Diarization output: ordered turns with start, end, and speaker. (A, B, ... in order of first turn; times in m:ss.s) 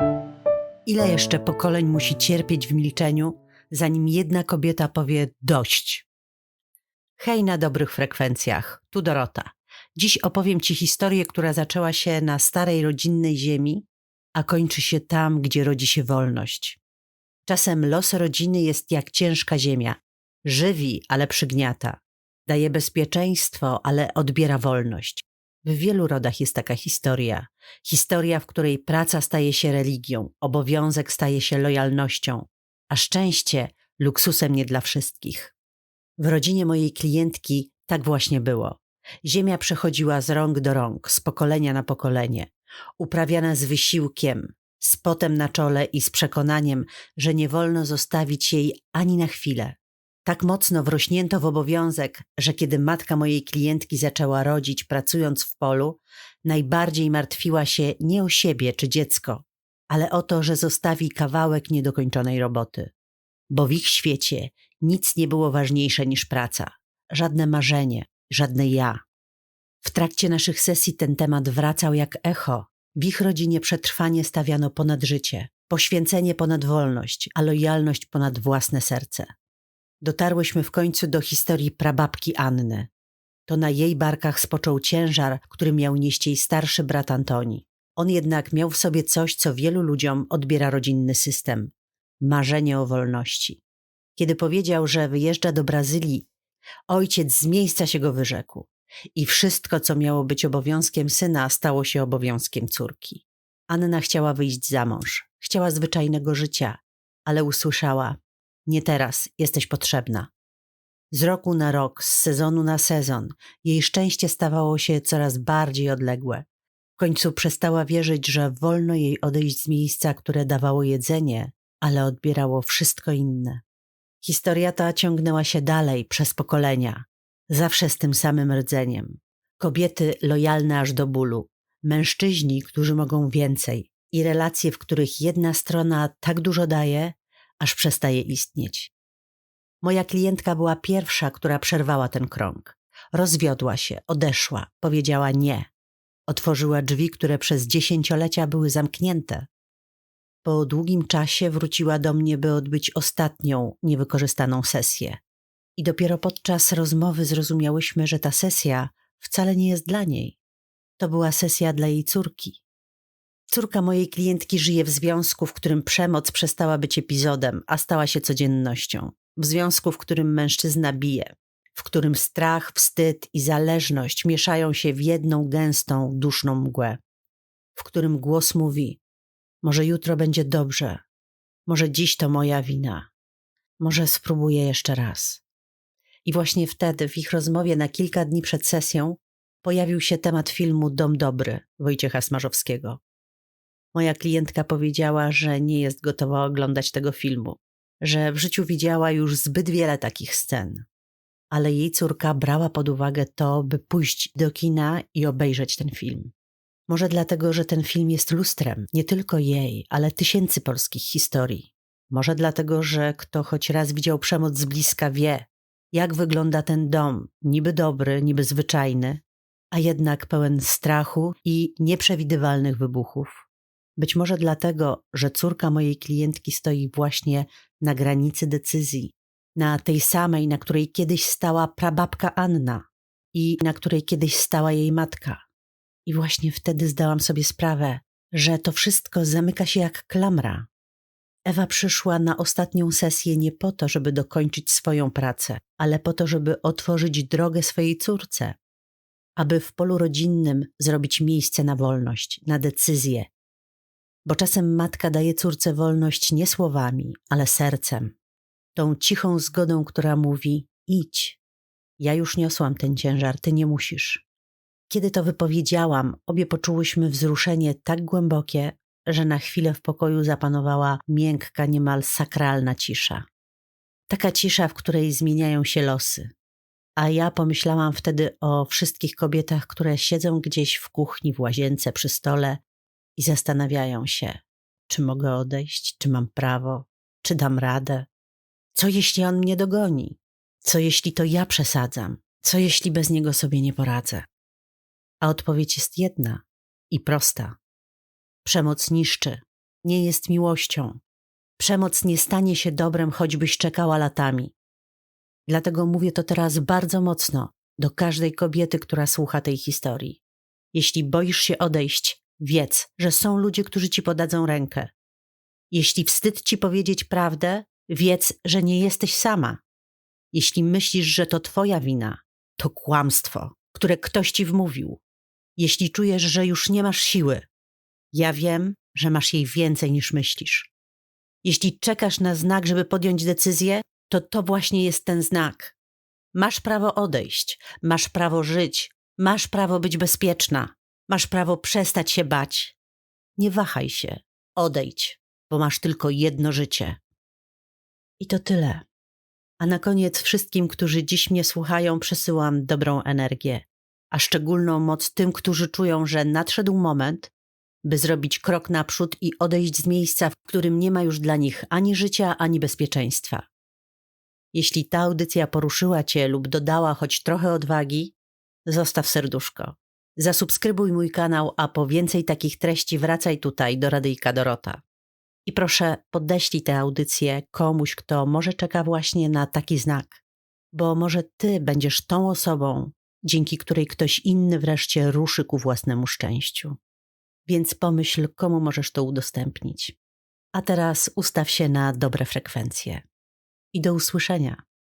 0:00.9-0:06.1 A
0:07.2-0:16.8 A
0:17.5-0:35.5 A
0:36.2-1:02.9 A
1:03.5-1:09.0 A
1:09.8-1:19.3 A
1:20.0-1:22.9 A
1:23.5-1:33.6 A
1:34.2-1:36.3 A
1:36.9-1:50.3 A
1:51.1-1:56.4 A
1:57.0-2:03.6 A
2:04.2-2:18.9 A
2:19.8-2:25.7 A
2:26.3-2:29.5 A
2:30.4-2:35.2 A
2:35.8-2:40.4 A
2:41.0-2:42.6 A
2:43.5-2:57.0 A
2:57.8-2:59.0 A
2:59.6-3:01.0 A
3:01.7-3:03.0 A
3:03.8-3:05.4 A
3:06.2-3:13.0 A
3:13.9-3:20.8 A
3:21.5-3:26.3 A
3:26.9-3:43.5 A
3:44.0-3:52.8 A
3:53.3-3:55.4 A
3:56.1-4:00.7 A
4:01.5-4:08.6 A
4:09.4-4:13.3 A
4:14.3-4:18.2 A
4:18.8-4:21.4 A
4:22.0-4:24.2 A
4:24.9-4:33.2 A
4:34.1-4:36.3 A
4:37.0-4:42.6 A
4:43.2-4:48.1 A
4:48.8-4:54.3 A
4:55.2-4:57.6 A
4:58.4-5:01.0 A
5:01.6-5:04.5 A
5:05.5-5:10.2 A
5:10.7-5:14.9 A
5:15.7-5:19.6 A
5:20.3-5:25.0 A
5:25.6-5:27.5 A
5:28.1-5:30.7 A
5:31.4-5:35.8 A
5:36.4-5:42.8 A
5:43.4-5:47.0 A
5:48.2-5:48.8 A
5:49.6-5:57.3 A
5:57.8-6:03.5 A
6:04.5-6:08.2 A
6:08.7-6:14.8 A
6:15.5-6:20.2 A
6:20.7-6:26.8 A
6:27.5-6:30.0 A
6:30.5-6:33.0 A
6:33.7-6:34.6 A